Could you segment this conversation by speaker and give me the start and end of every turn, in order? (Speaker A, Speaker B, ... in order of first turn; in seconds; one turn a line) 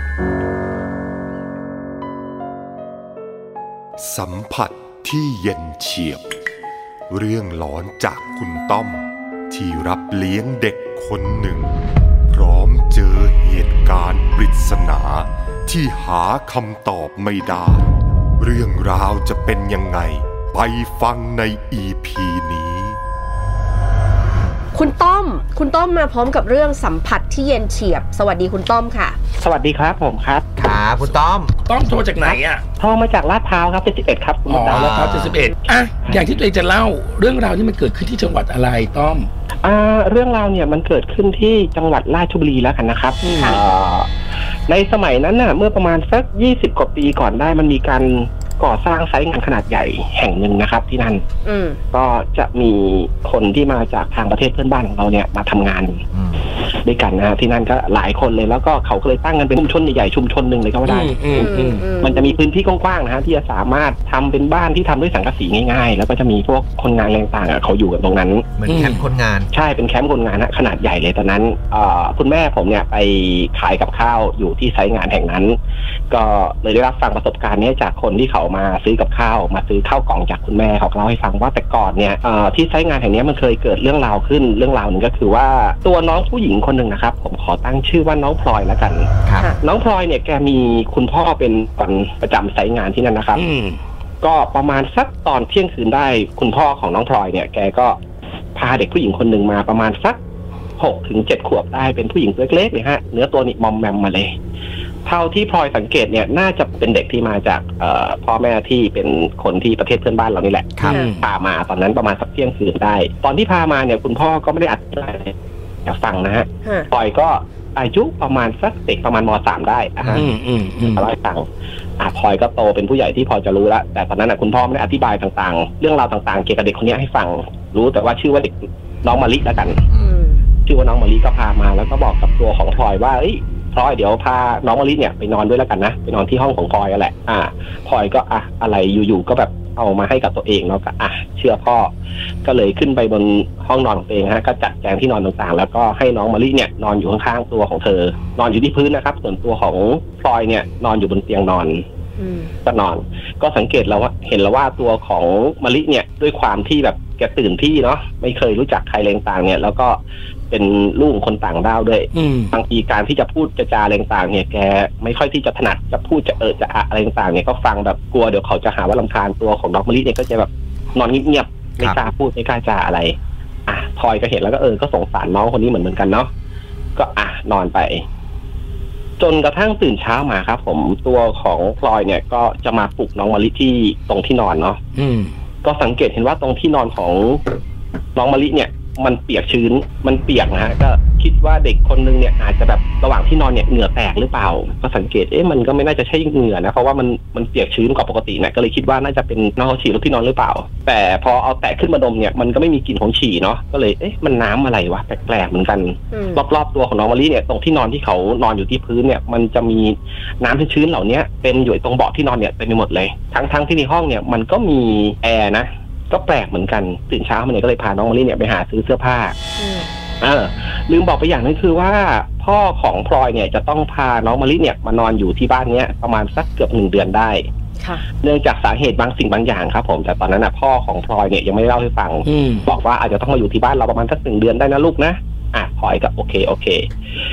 Speaker A: 4.0-6.2
Speaker A: 7.1-11.7
Speaker A: 12.3-17.9
Speaker A: 18.4-23.0
Speaker B: 24.7-29.2
Speaker C: 29.4-30.5
Speaker D: 30.6-31.5
Speaker E: 31.6-32.6
Speaker C: 32.8-35.1
Speaker E: 34.5-39.3
Speaker D: 34.7-35.4
Speaker C: 39.6-44.1
Speaker E: 43.2-43.6
Speaker B: 43.3-43.6
Speaker C: 44.7-51.2
Speaker B: 51.4-51.8
Speaker C: 51.9-56.0
Speaker D: 56.1-56.5
Speaker C: 56.8-61.3
Speaker E: 60.9-61.8
Speaker B: 61.3-62.3
Speaker C: 62.0-68.5
Speaker D: 68.6-69.5
Speaker E: 68.7-69.0
Speaker C: 69.5-75.6
Speaker C: 76.1-89.1
Speaker D: 89.2-89.5
Speaker C: 89.6-93.4
Speaker E: 93.3-93.8
Speaker C: 94.2-98.0
Speaker C: 98.5-100.2
Speaker C: 100.8-104.3
Speaker C: 105.0-115.3
Speaker B: 110.8-111.1
Speaker E: 110.9-111.2
Speaker C: 115.8-120.3
Speaker B: 116.6-116.9
Speaker D: 120.0-120.3
Speaker E: 120.1-121.0
Speaker C: 120.8-121.4
Speaker C: 122.0-129.8
Speaker B: 130.0-130.4
Speaker C: 130.6-141.9
Speaker C: 142.4-151.8
Speaker B: 152.2-152.5
Speaker C: 152.6-160.0
Speaker C: 160.5-173.1
Speaker E: 162.1-162.5
Speaker C: 173.7-176.3
Speaker C: 176.9-178.0
Speaker C: 179.2-184.8
Speaker E: 184.9-185.3
Speaker C: 185.6-187.4
Speaker C: 188.2-219.3
Speaker B: 206.1-206.4
Speaker B: 219.6-219.9
Speaker C: 220.2-227.4
Speaker B: 227.8-228.1
Speaker C: 228.1-236.9
Speaker E: 232.2-232.7